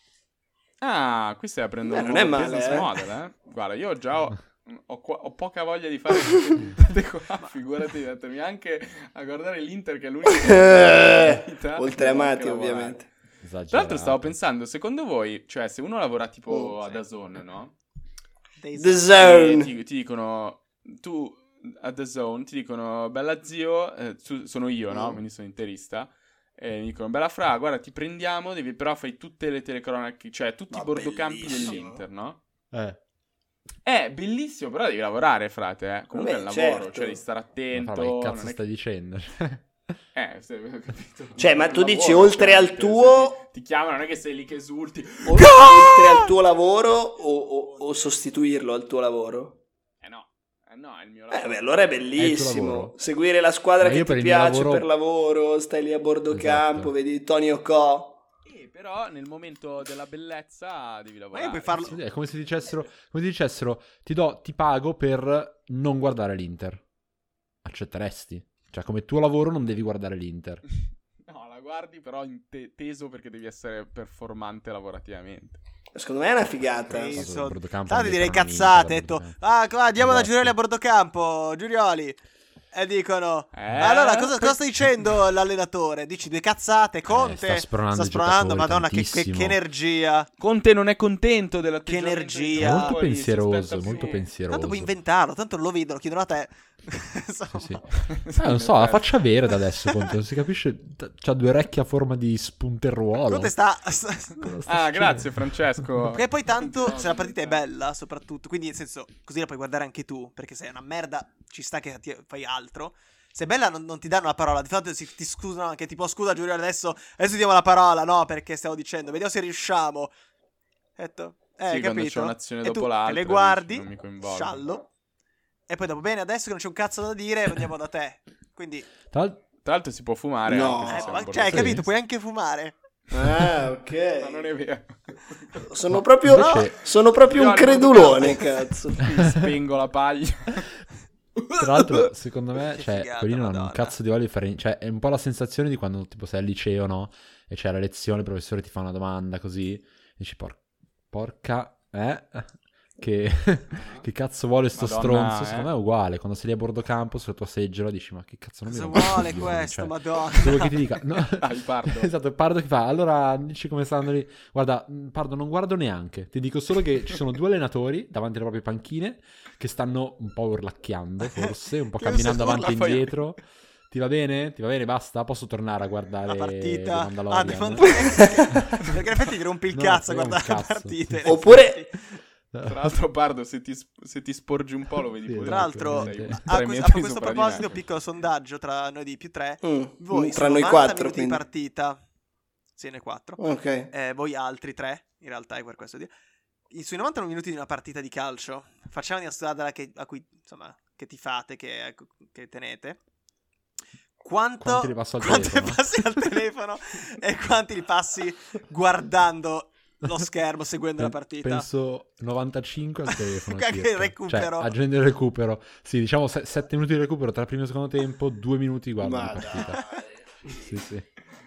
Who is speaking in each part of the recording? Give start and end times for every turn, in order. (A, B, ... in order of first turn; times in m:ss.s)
0:00.8-0:13.1 A
0:01.9-0:02.9 B
0:10.3-0:13.1 B
0:13.4-0:14.3 C
0:13.7-0:17.7 A
0:16.5-0:16.7 B
0:18.6-0:19.2 D
0:18.8-0:19.7 B
0:19.1-0:32.4 A
0:24.9-0:25.2 B
0:30.7-0:32.0 B
0:31.4-0:31.8 D
0:32.7-0:33.0 C
0:33.8-0:38.6 A
0:36.1-0:37.2 B
0:37.7-0:39.6 C
0:40.1-0:46.3 A
0:41.4-0:43.4 B
0:45.2-0:49.6 B
0:50.0-0:52.0 A
0:51.3-0:58.2 B
0:52.2-0:52.9 C
0:53.8-0:54.9 C
0:56.3-0:56.9 C
0:58.4-1:01.9 A
1:01.3-1:02.0 D
1:01.7-1:06.8 C
1:07.6-1:10.6 C
1:11.3-1:15.6 A
1:15.9-1:17.2 B
1:16.9-1:19.4 C
1:16.9-1:22.2 D
1:20.0-1:20.5 C
1:22.7-1:30.3 D
1:23.5-1:24.6 A
1:27.1-1:29.6 C
1:30.4-1:34.2 A
1:31.8-1:33.0 D
1:32.6-1:34.9 C
1:33.9-1:37.8 D
1:37.5-1:43.5 C
1:38.1-1:39.1 A
1:43.3-1:44.6 D
1:44.4-1:45.4 C
1:44.6-1:47.6 A
1:46.1-2:00.1 D
2:01.0-2:04.9 D
2:01.7-2:04.6 A
2:05.7-2:08.9 D
2:09.1-2:09.4 C
2:09.6-2:11.8 A
2:10.5-2:11.2 B
2:10.8-2:12.8 D
2:11.4-2:11.9 C
2:13.1-2:14.5 B
2:14.2-2:15.6 A
2:15.6-2:19.1 B
2:15.9-2:16.7 C
2:16.3-2:16.7 D
2:17.1-2:20.8 A
2:19.1-2:19.4 C
2:21.4-2:22.0 A
2:21.5-2:30.6 C
2:22.7-2:24.0 D
2:31.1-2:58.8 C
2:33.8-2:34.0 A
2:34.7-2:35.7 A
2:38.7-2:40.8 D
2:41.2-2:42.1 A
2:52.0-2:53.2 A
2:56.3-3:02.0 D
2:58.1-2:58.4 B
2:59.7-3:01.6 C
3:01.2-3:01.8 B
3:02.5-3:03.0 C
3:02.6-3:07.8 A
3:05.3-3:06.4 C
3:05.4-3:12.0 D
3:09.6-3:11.4 B
3:12.8-3:16.1 D
3:13.4-3:13.9 B
3:16.7-3:23.0 D
3:24.2-3:31.7 D
3:24.6-3:25.8 C
3:31.0-3:39.9 C
3:33.1-3:34.7 D
3:39.0-3:39.9 B
3:40.5-3:41.0 C